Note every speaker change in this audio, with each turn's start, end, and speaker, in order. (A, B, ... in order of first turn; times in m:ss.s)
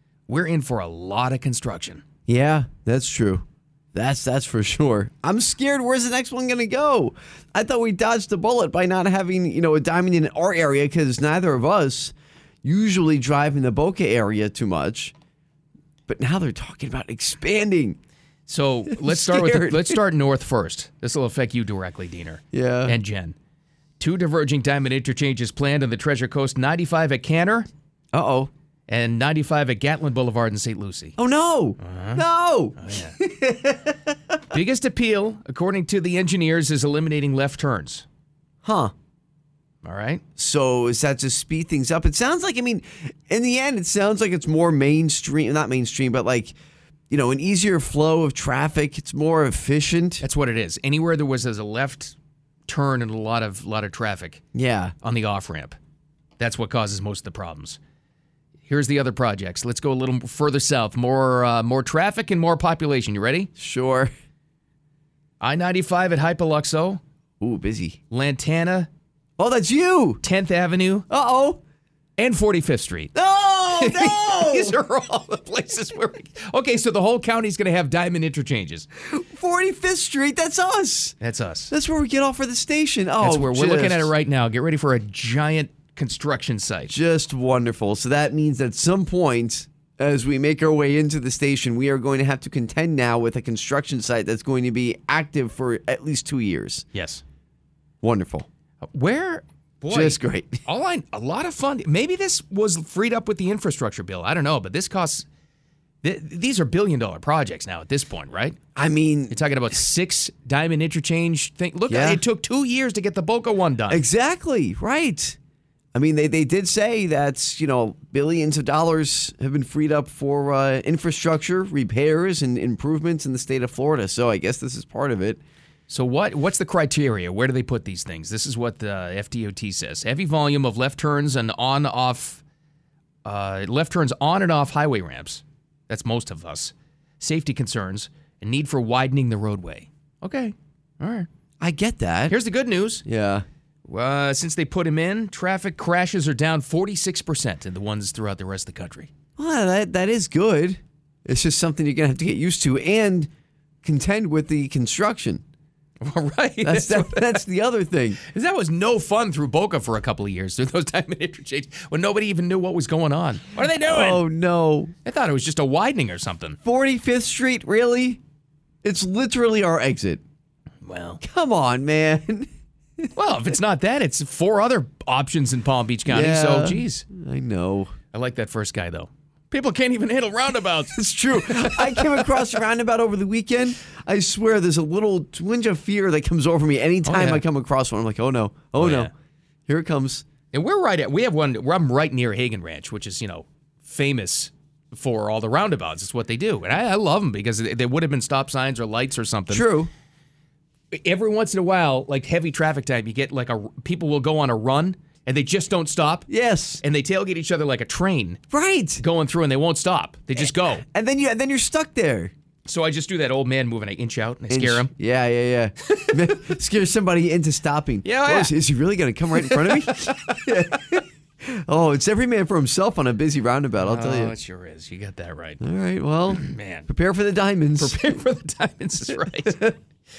0:00.3-0:02.0 A
0:02.3-0:15.1 B
0:16.1-0:18.0 B
0:18.5-0:23.4 A
0:18.9-0:20.0 B
0:22.5-0:23.0 B
0:24.0-0:27.7 A
0:28.1-0:28.5 B
0:28.9-0:31.2 A
0:31.2-0:34.1 B
0:31.8-0:32.2 A
0:32.8-0:33.2 A
0:34.5-0:38.0 A
0:38.6-0:38.9 B
0:39.8-0:40.2 A
0:40.4-0:46.5 B
0:47.1-0:50.2 B
0:50.2-0:52.1 A
0:52.7-0:54.4 A
0:54.5-0:54.9 B
0:55.0-0:55.7 A
0:56.4-0:57.8 A
0:58.7-1:03.5 A
1:03.6-1:04.1 B
1:05.4-1:07.0 A
1:07.4-1:08.0 B
1:08.1-1:08.9 A
1:09.4-1:10.2 B
1:10.2-1:11.0 A
1:11.1-1:11.6 B
1:12.2-1:13.1 A
1:13.1-1:14.8 B
1:13.7-1:18.9 A
1:19.0-1:21.2 B
1:21.2-1:21.7 A
1:21.7-1:24.1 B
1:23.2-1:26.9 A
1:26.9-1:36.8 B
1:36.9-1:37.2 A
1:38.0-1:38.5 B
1:38.8-1:45.3 A
1:39.9-1:40.6 B
1:46.0-1:48.6 A
1:48.7-1:49.4 B
1:49.3-1:54.0 A
1:51.9-1:52.2 B
1:53.9-1:55.4 B
1:55.9-2:05.4 B
2:05.9-2:12.4 A
2:13.2-2:21.3 A
2:21.6-2:22.4 B
2:22.3-2:23.0 A
2:23.0-2:23.4 B
2:23.8-2:29.1 A
2:29.4-2:33.3 B
2:33.8-2:35.4 B
2:36.0-2:37.4 A
2:36.6-2:38.2 B
2:38.2-2:44.2 A
2:43.8-2:44.9 B
2:45.0-2:46.6 A
2:46.6-2:48.2 B
2:48.8-2:50.2 B
2:50.8-2:51.2 A
2:51.2-2:52.5 B
2:53.1-2:57.0 A
2:56.1-2:57.9 B
2:58.1-3:02.4 A
3:00.9-3:09.1 B
3:07.0-3:07.4 A
3:08.8-3:09.1 A
3:09.7-3:10.2 B
3:10.5-3:19.7 A
3:19.5-3:19.9 B
3:20.9-3:26.3 A
3:26.3-3:26.8 B
3:26.8-3:28.4 A
3:28.5-3:29.0 B
3:29.0-3:30.8 A
3:30.4-3:32.3 B
3:32.6-3:34.9 A
3:34.5-3:44.3 B
3:35.9-3:36.1 A
3:38.0-3:38.5 A
3:39.4-3:40.4 A
3:43.8-3:45.6 A
3:45.6-3:48.0 B
3:46.3-3:46.9 A
3:47.8-3:49.7 A
3:49.4-3:49.7 B